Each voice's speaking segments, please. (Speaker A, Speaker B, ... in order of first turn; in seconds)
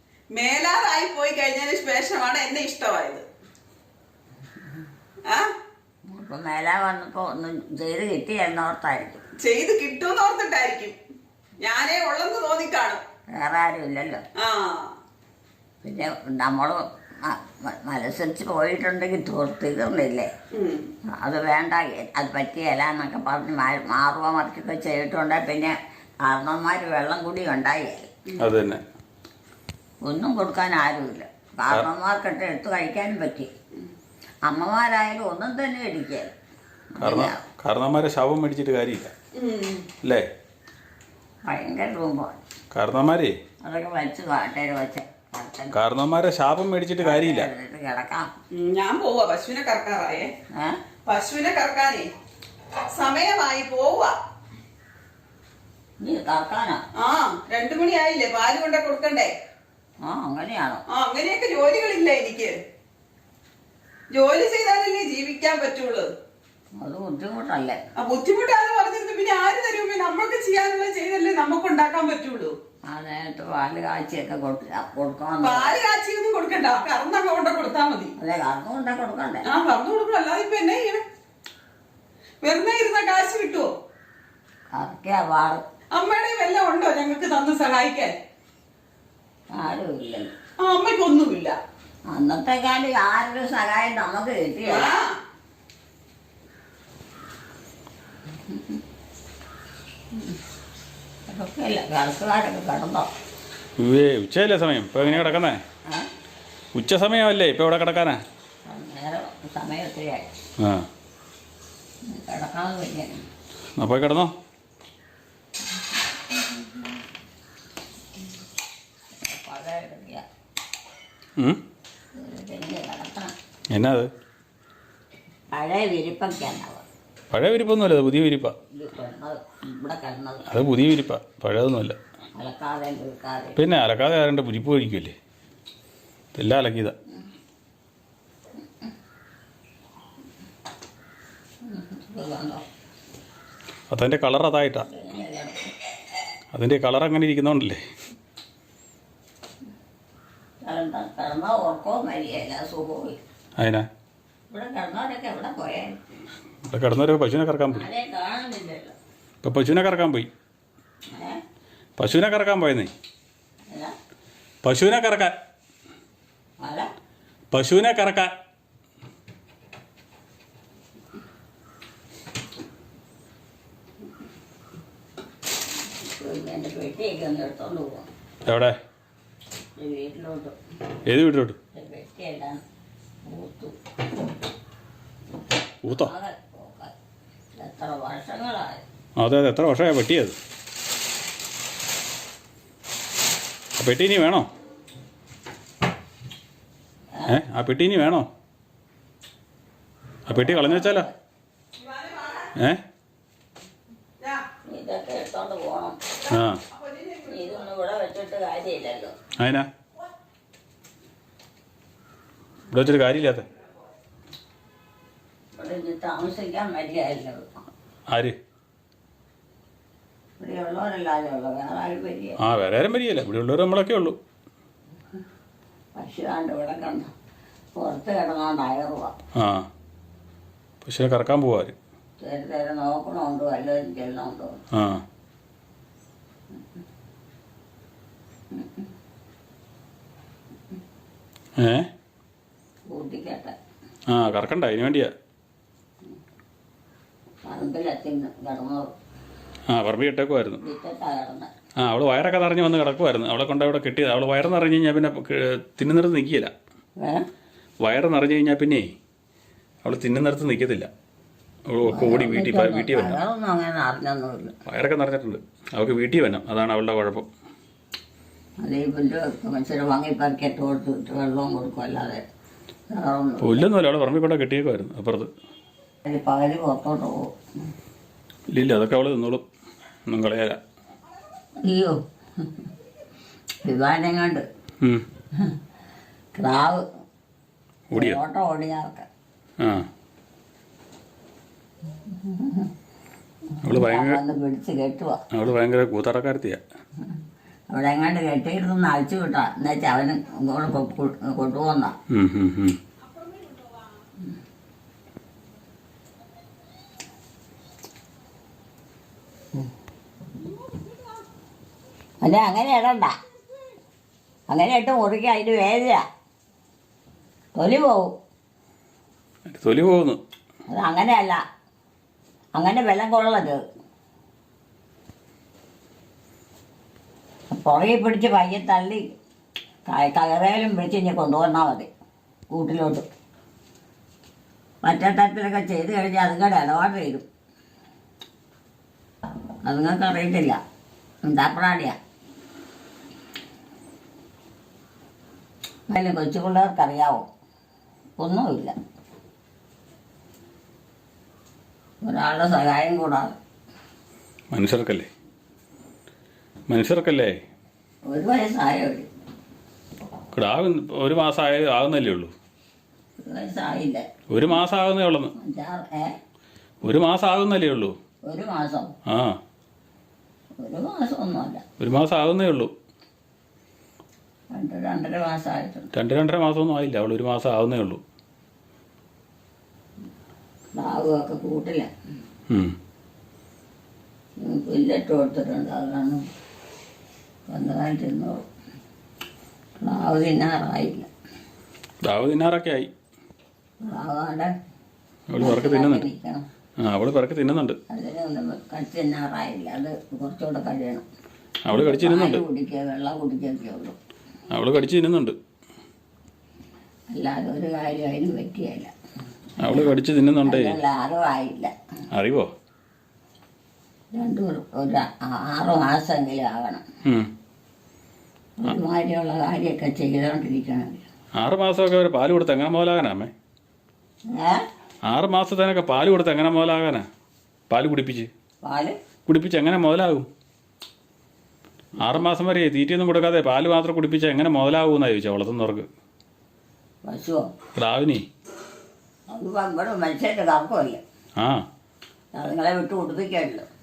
Speaker A: 0.3-3.2, 9.4-11.0, 11.6-13.0, 14.4-14.9, 20.5-20.9, 39.4-39.9, 48.5-50.3, 51.1-52.1, 52.9-54.1, 57.0-59.3, 60.9-62.5, 64.1-66.1, 68.0-72.5, 75.4-78.1, 79.5-81.0, 82.4-83.7, 86.0-88.2, 90.6-91.6, 94.7-95.1, 201.8-202.5, 206.3-207.6, 303.1-303.8
Speaker B: 6.1-9.2, 13.3-14.2, 15.8-20.3, 21.2-28.1, 30.0-33.5, 34.5-36.3, 37.0-37.4, 41.5-42.4, 43.6-45.8, 47.0-48.3, 56.0-56.8, 60.0-60.8, 66.8-67.8, 72.9-75.8, 78.2-79.5, 84.7-85.6, 89.5-90.3, 92.1-94.9, 98.5-98.8, 101.3-103.1, 105.0-106.1, 108.7-110.3, 112.1-113.2, 116.3-116.8, 119.3-120.2, 122.2-123.3, 125.5-126.8, 128.7-130.5, 132.4-133.6, 141.7-142.7, 144.8-145.7, 150.6-153.2, 154.5-156.0, 157.7-158.9, 161.1-161.4, 166.6-166.9, 176.0-178.1, 179.8-180.6, 181.7-182.6, 183.2-183.8, 185.9-186.9, 187.6-188.8, 200.3-201.1, 204.7-206.0, 207.3-209.2, 215.6-217.6, 220.4-222.4, 225.9-227.1, 227.8-229.2, 232.2-234.6, 238.5-238.8, 242.9-243.6, 247.4-248.9, 250.6-251.5, 257.0-257.3, 261.9-264.5, 268.6-272.3, 272.9-273.6, 276.0-277.3, 281.6-282.5, 283.6-284.4, 286.4-286.9, 287.9-289.1, 292.1-292.7, 293.6-295.2, 297.7-302.0, 312.2-313.2, 314.5-316.1, 317.6-318.1, 320.7-321.4, 322.6-323.6, 327.5-329.1, 329.9-331.9, 332.5-333.1, 334.8-337.3, 339.6-340.6, 341.3-342.0, 345.9-347.3, 348.2-348.8, 352.0-353.4, 358.1-359.1, 363.2-364.1, 365.4-366.1, 368.3-368.9, 370.6-371.6, 374.6-375.9, 380.8-381.9, 384.4-386.2, 387.5-388.4, 389.8-391.1, 393.8-394.5, 395.4-396.5, 397.9-401.0, 401.7-404.0, 407.1-408.9, 409.6-409.9, 410.4-411.7, 414.1-416.9, 418.6-421.1, 424.3-424.6, 428.6-429.0, 437.1-437.5, 439.3-441.0, 442.4-443.7
Speaker C: 28.4-28.8, 37.0-39.1, 42.7-43.4, 45.7-47.5, 103.8-105.6, 106.8-108.2, 110.6-110.9, 113.8-114.3, 123.7-124.1, 127.3-128.6, 130.5-132.0, 133.6-135.2, 136.3-136.9, 143.9-144.9, 146.5-147.8, 153.6-153.9, 156.7-157.8, 159.4-160.3, 162.0-162.9, 164.6-165.3, 167.5-168.3, 178.5-178.8, 181.1-181.6, 185.8-186.1, 189.2-190.3, 193.8-194.5, 197.3-198.3, 200.3-201.1, 202.6-202.8, 206.3-206.6, 209.4-209.7, 212.7-213.5, 218.1-218.3, 222.4-224.2, 229.3-229.7, 230.8-231.8, 234.7-235.0, 241.6-241.9, 244.1-245.1, 249.7-250.6, 251.8-256.5, 257.8-258.9, 259.8-260.9, 261.7-263.2, 264.7-267.3, 273.4-275.3, 278.5-279.4, 280.1-280.6, 287.9-288.2, 289.6-289.9, 293.6-294.2, 295.3-296.6, 302.1-302.8, 319.5-320.2, 354.5-355.1, 356.7-357.4, 360.3-362.3, 364.3-365.3, 366.8-367.9, 369.1-369.4, 371.8-372.7, 375.9-378.0, 382.5-382.8, 392.0-392.9, 395.3-396.1, 396.8-397.8, 401.6-402.4, 404.5-405.4, 409.6-410.8, 412.1-412.5, 421.4-423.3, 425.1-427.1, 427.7-428.3, 429.3-430.3, 432.0-435.9, 437.8-438.2